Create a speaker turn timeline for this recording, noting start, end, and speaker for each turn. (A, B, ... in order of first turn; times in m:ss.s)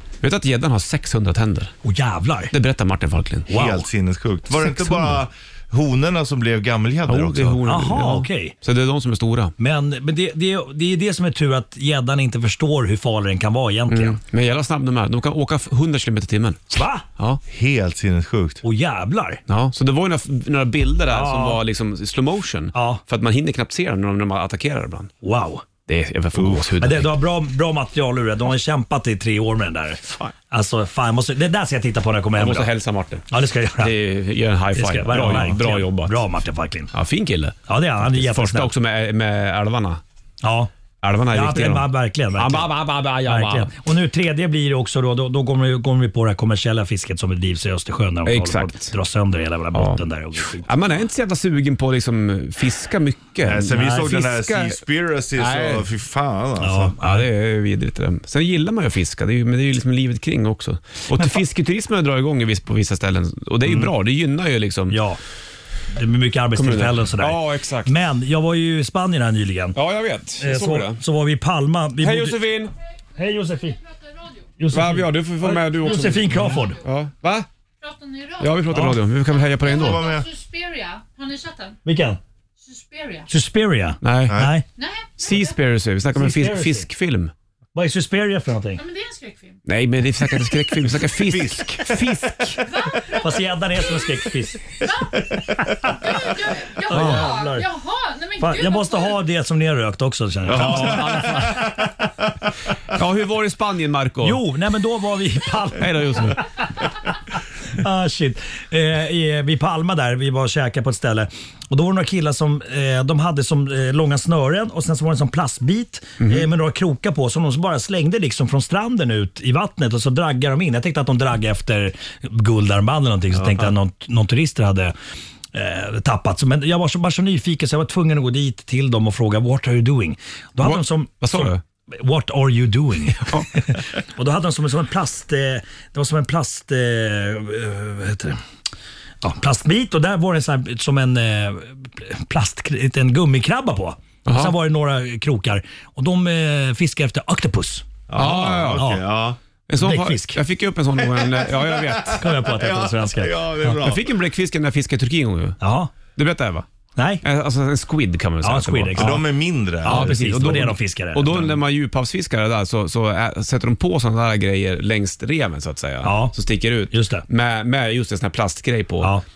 0:00.2-0:01.7 A
0:01.8-0:02.5 B
0:02.5-0:03.5 A
0:03.5-0:03.9 B
0:03.5-0:07.6 C
0:04.8-0:05.1 B
0:07.1-0:09.5 A
0:07.7-0:08.6 B
0:09.6-0:14.2 B
0:13.9-0:17.4 A
0:16.7-0:17.0 B
0:17.5-0:18.6 C
0:18.6-0:19.4 B
0:19.5-0:25.1 A
0:21.1-0:21.6 B
0:22.7-0:23.0 B
0:25.2-0:25.6 B
0:25.9-0:27.1 A
0:26.4-0:26.7 C
0:26.8-0:32.7 B
0:32.4-0:33.3 A
0:33.3-0:33.9 B
0:33.8-0:36.2 A
0:34.8-0:36.9 B
0:36.9-0:40.0 A
0:37.7-0:38.7 B
0:40.4-0:40.7 B
0:41.0-0:43.7 A
0:41.3-0:42.7 B
0:43.2-0:50.8 B
0:48.3-0:48.9 A
0:49.7-0:50.0 A
0:50.6-0:54.8 A
0:53.4-0:56.9 C
0:53.7-0:54.1 B
0:55.4-0:55.9 A
0:56.6-0:57.3 B
0:57.0-1:05.0 A
1:04.9-1:05.2 B
1:05.9-1:09.8 B
1:06.6-1:07.9 A
1:09.8-1:11.0 A
1:10.4-1:12.4 B
1:12.0-1:12.7 A
1:13.2-1:13.8 B
1:13.9-1:14.5 D
1:14.6-1:16.8 B
1:14.7-1:17.5 A
1:17.8-1:21.8 D
1:18.4-1:20.1 A
1:18.7-1:19.0 B
1:19.7-1:20.3 C
1:21.8-1:22.2 B
1:22.6-1:23.3 D
1:23.3-1:24.6 B
1:24.0-1:24.5 A
1:24.3-1:24.5 C
1:24.8-1:25.6 D
1:25.2-1:27.3 A
1:26.2-1:26.9 B
1:27.8-1:28.8 B
1:28.8-1:29.6 D
1:29.7-1:32.6 A
1:31.2-1:31.7 C
1:31.4-1:32.5 B
1:32.6-1:39.3 D
1:33.1-1:34.8 B
1:35.6-1:37.7 B
1:36.9-1:37.3 A
1:38.4-1:41.4 B
1:40.5-1:42.3 C
1:40.5-1:41.7 A
1:42.9-1:44.4 A
1:44.2-1:46.5 B
1:45.8-1:46.4 A
1:47.7-2:04.9 B
1:56.2-1:56.5 A
2:03.4-2:03.7 A
2:05.5-2:18.4 B
2:10.6-2:11.6 A
2:19.2-2:27.9 B
2:24.2-2:24.5 A
2:28.1-2:29.4 C
2:28.2-2:28.8 A
2:28.8-2:29.0 B
2:29.7-2:32.2 A
2:29.8-2:30.4 B
2:31.0-2:34.0 C
2:32.2-2:33.4 B
2:33.7-2:35.6 A
2:35.6-2:35.9 B
2:36.2-2:36.7 A
2:37.0-2:37.2 B
2:37.2-2:39.2 A
2:38.4-2:39.3 B
2:39.0-2:40.2 C
2:39.8-2:41.5 B
2:39.8-2:49.1 A
2:46.0-2:46.4 B
2:46.9-2:47.3 B